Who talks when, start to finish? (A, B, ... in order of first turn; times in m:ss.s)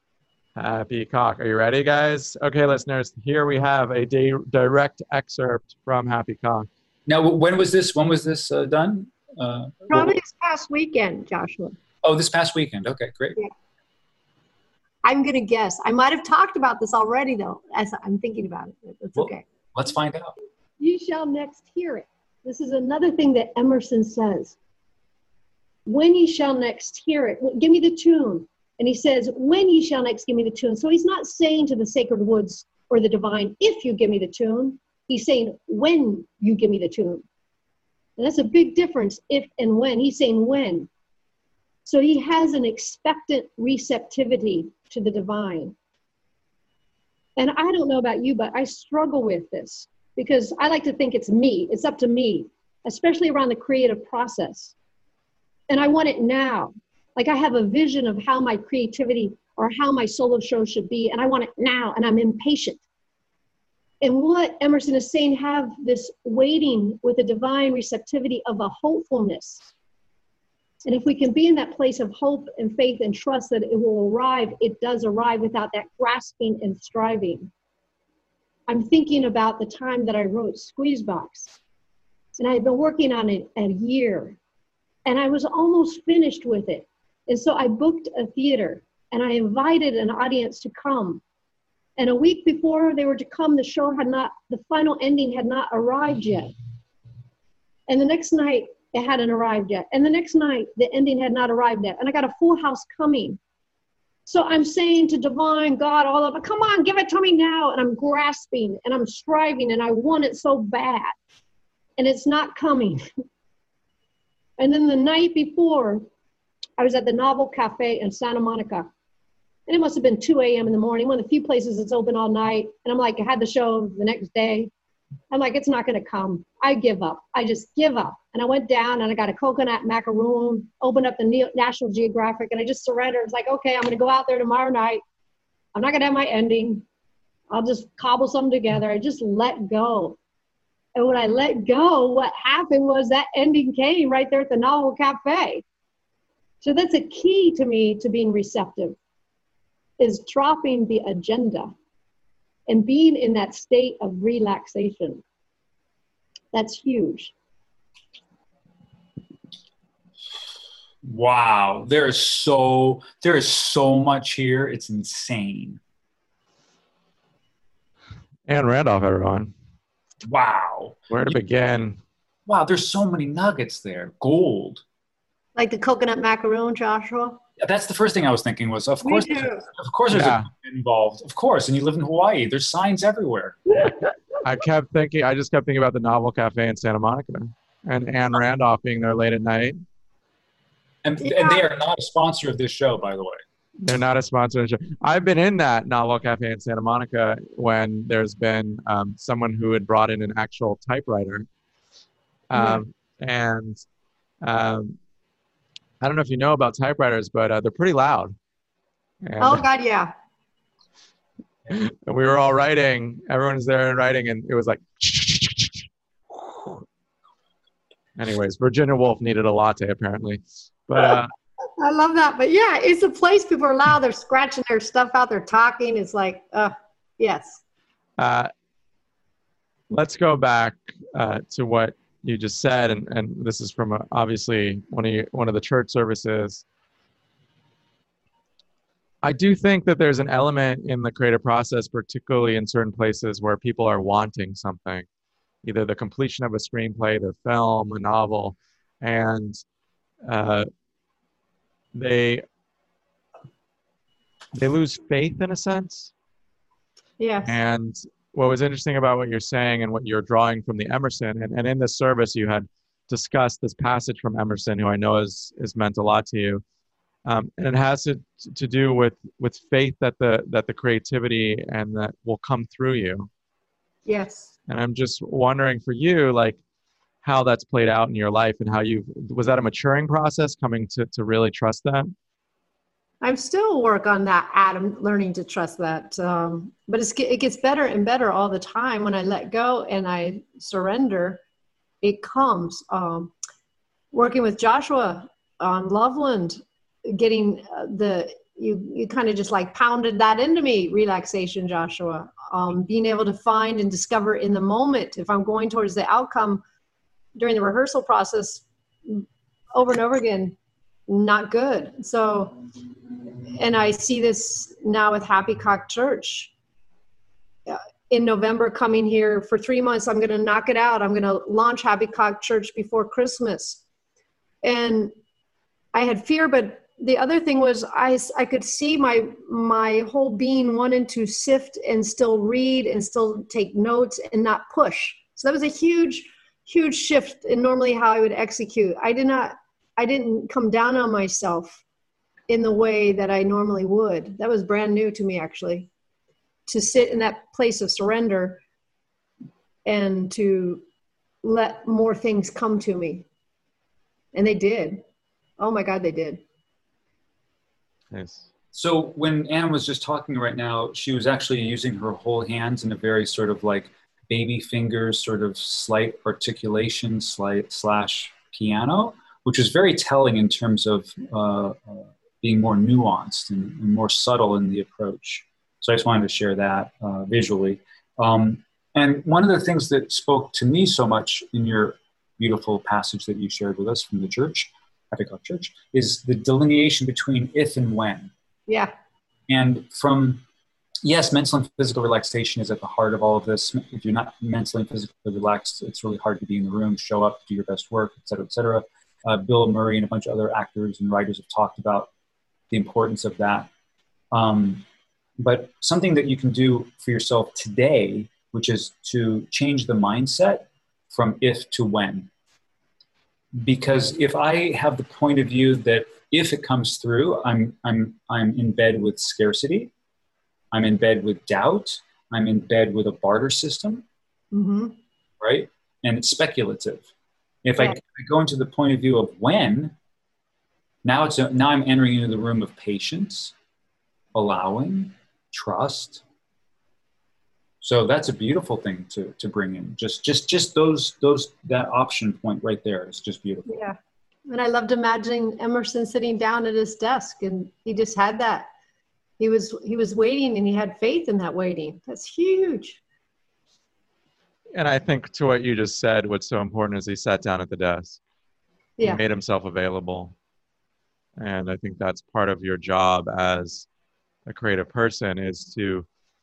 0:00.6-0:06.7 A
0:07.0-0:10.2 B
0:09.9-0:11.8 C
0:12.0-0:13.4 B
0:15.0-0:19.4 C
0:19.2-0:20.3 B
0:20.8-0:24.6 C
0:25.8-0:37.2 C
0:38.2-0:40.9 C
0:41.8-0:45.7 C
0:47.4-0:54.7 C
0:55.7-1:02.8 C
1:04.0-1:09.7 C
1:10.8-1:17.5 C
1:18.7-1:21.5 C
1:22.4-1:24.4 C
1:25.0-1:31.2 C
1:32.0-1:36.5 C
1:37.9-1:43.4 C
1:44.2-1:51.1 C
1:52.0-1:53.0 C
1:54.6-1:56.0 C
1:56.8-1:58.9 C
1:59.7-2:04.7 C
2:05.3-2:15.0 C
2:15.7-2:16.8 C
2:17.5-2:20.2 C
2:21.0-2:25.6 C
2:26.6-2:29.0 C
2:30.0-2:31.7 C
2:32.7-2:35.2 C
2:36.5-2:37.3 C
2:41.0-2:45.8 B
2:48.5-2:49.5 A
2:50.2-2:51.3 B
2:51.1-2:52.0 A
2:52.5-2:54.8 B
2:55.6-2:57.4 C
2:57.6-3:03.7 B
2:59.0-2:59.6 C
3:00.1-3:00.5 A
3:04.4-3:09.8 A
3:11.0-3:13.4 B
3:11.2-3:11.6 C
3:13.8-3:21.5 A
3:22.5-3:23.8 A
3:22.5-3:22.8 C
3:24.4-3:25.0 A
3:26.0-3:28.3 A
3:29.2-3:29.6 A
3:29.4-3:30.1 C
3:31.7-3:36.8 A
3:38.2-3:41.3 A
3:41.8-3:47.6 C
3:48.2-3:48.5 A
3:49.9-3:56.6 A
3:59.2-4:05.0 A
4:05.6-4:09.6 A
4:10.2-4:10.7 A
4:11.9-4:12.4 A
4:14.5-4:16.1 A
4:17.2-4:17.6 C
4:17.4-4:26.6 A
4:27.2-4:33.3 A
4:34.0-4:34.5 C
4:34.7-4:36.6 A
4:37.2-4:42.1 A
4:43.2-4:51.4 C
4:52.0-4:53.3 C
4:54.1-5:06.6 C
5:07.4-5:10.6 C
5:11.1-5:12.6 C
5:13.5-5:16.5 C
5:17.7-5:23.8 C
5:24.6-5:25.1 C
5:25.9-5:41.8 C
5:42.5-5:45.9 C
5:46.7-5:48.6 C
5:49.8-5:50.8 C
5:51.4-5:53.3 C
5:54.3-5:55.0 C
5:55.6-5:56.4 C
5:58.1-5:58.5 A
5:58.7-6:28.3 B
6:29.5-6:30.4 B
6:31.0-6:42.1 B
6:42.7-6:43.7 B
6:44.3-6:44.8 B
6:45.4-6:52.3 B
6:53.6-6:59.9 B
7:00.7-7:04.0 B
7:04.5-7:05.0 C
7:05.4-7:07.1 B
7:07.6-7:09.9 B
7:11.0-7:13.5 B
7:14.3-7:16.2 B
7:17.8-7:23.7 B
7:23.7-7:24.0 C
7:24.5-7:28.7 C
7:29.4-7:33.0 C
7:34.7-7:38.2 A
7:39.0-7:40.3 A
7:41.4-7:43.9 A
7:44.4-7:46.0 A